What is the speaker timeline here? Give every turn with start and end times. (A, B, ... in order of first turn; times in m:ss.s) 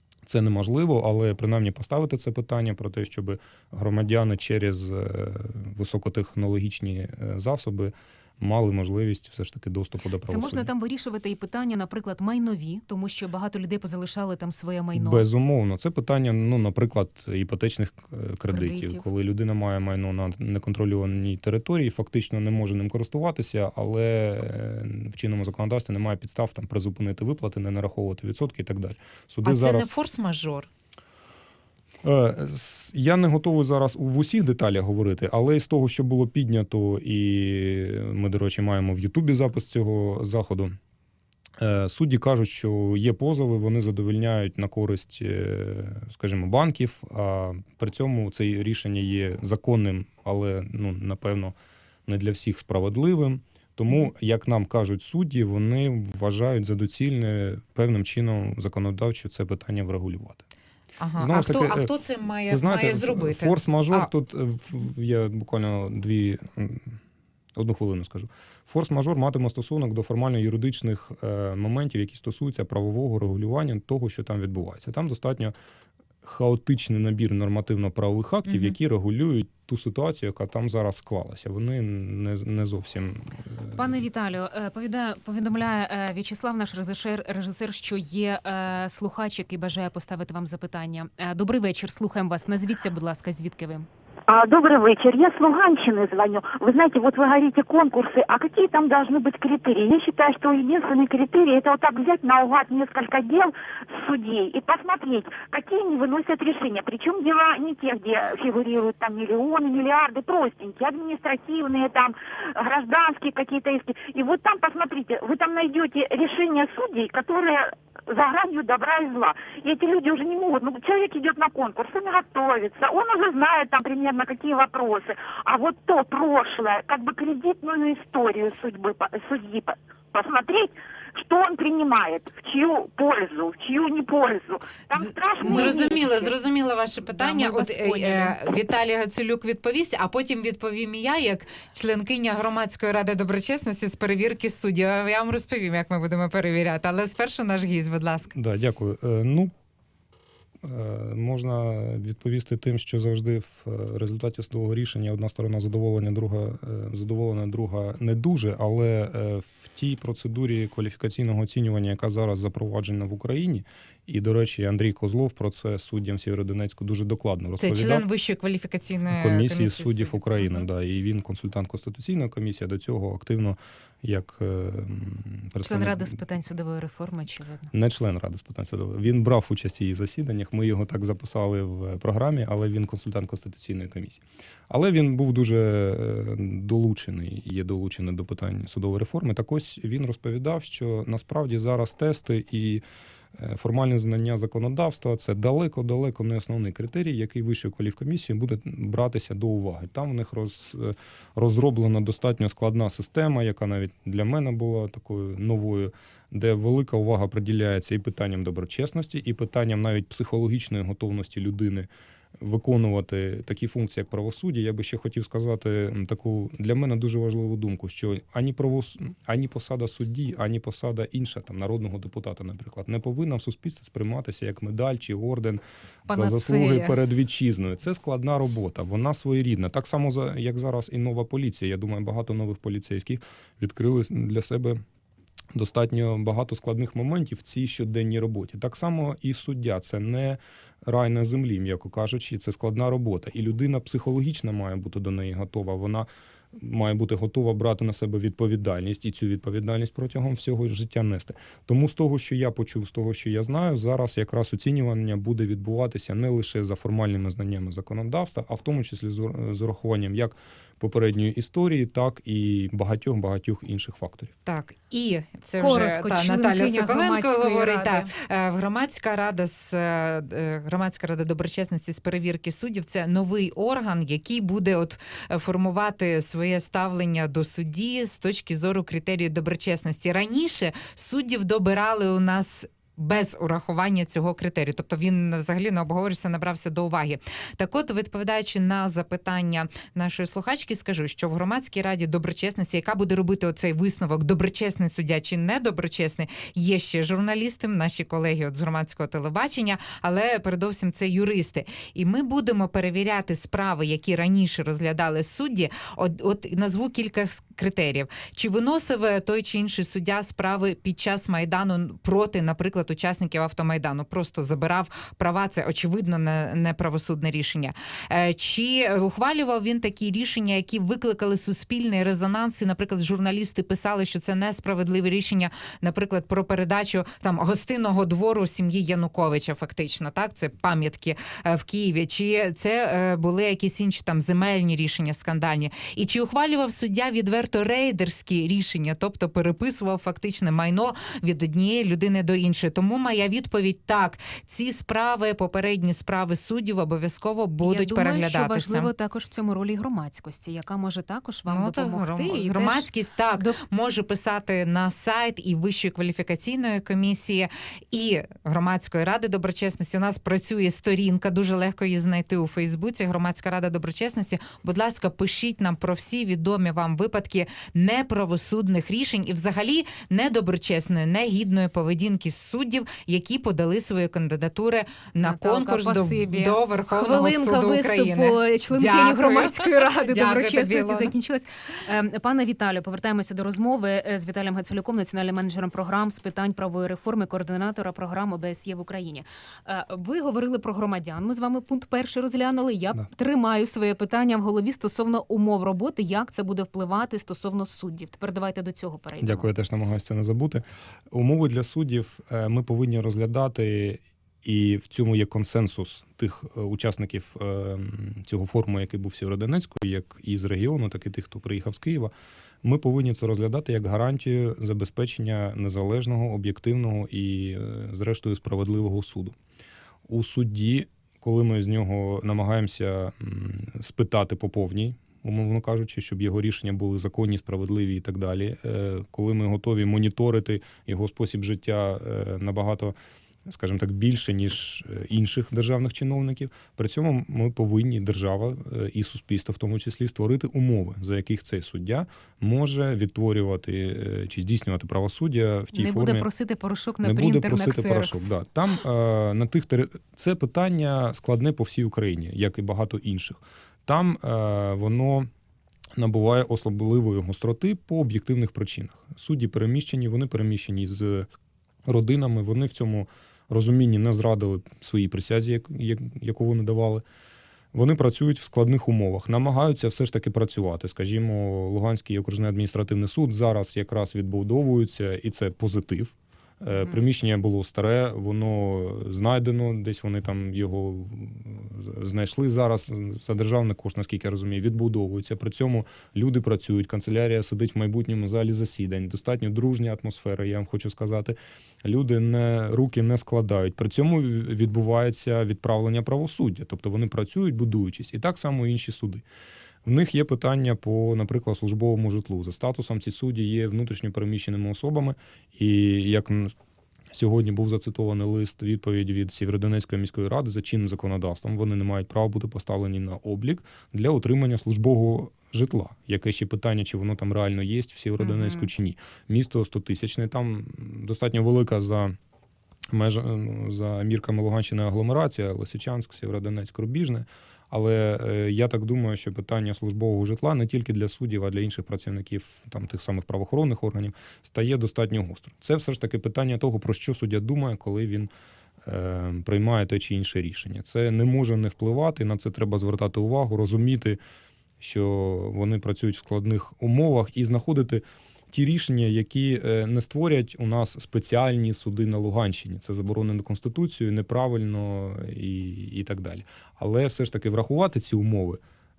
0:00.2-0:10.7 A
0:10.2-0:15.2 B
0:14.9-0:29.9 A
0:18.5-0:19.0 B
0:29.4-0:30.7 C
0:32.0-0:40.7 A
0:41.6-0:51.5 A
0:52.0-1:00.4 A
1:01.0-1:04.1 C
1:01.2-1:01.9 A
1:02.5-1:07.0 A
1:07.5-1:15.5 A
1:16.2-1:23.8 A
1:23.7-1:33.9 B
1:34.3-2:16.3 D
2:15.0-2:28.3 C
2:15.4-2:16.2 B
2:17.1-2:18.3 B
2:28.3-2:29.5 A
2:30.6-2:48.0 A
2:47.6-2:50.2 C
2:49.1-2:56.2 A
2:55.6-2:57.7 B
2:57.7-3:12.8 A
3:13.3-3:54.8 A
3:46.1-3:47.0 B
3:55.5-4:24.3 A
4:24.4-5:48.9 C
4:25.6-4:28.1 B
5:47.6-5:53.6 B
5:51.5-6:21.1 C
6:15.2-6:39.5 B
6:39.2-6:52.1 A
6:52.6-6:59.4 A
7:00.1-7:12.9 A
7:13.4-7:26.3 A
7:25.7-7:28.3 B
7:27.0-7:35.3 A
7:36.0-7:41.3 A
7:41.9-7:47.0 A
7:47.7-8:19.2 A
8:19.8-8:26.5 A
8:27.1-8:42.2 A
8:38.2-8:38.7 B
8:42.9-8:58.3 A
8:58.8-9:04.2 A
9:04.8-9:18.6 A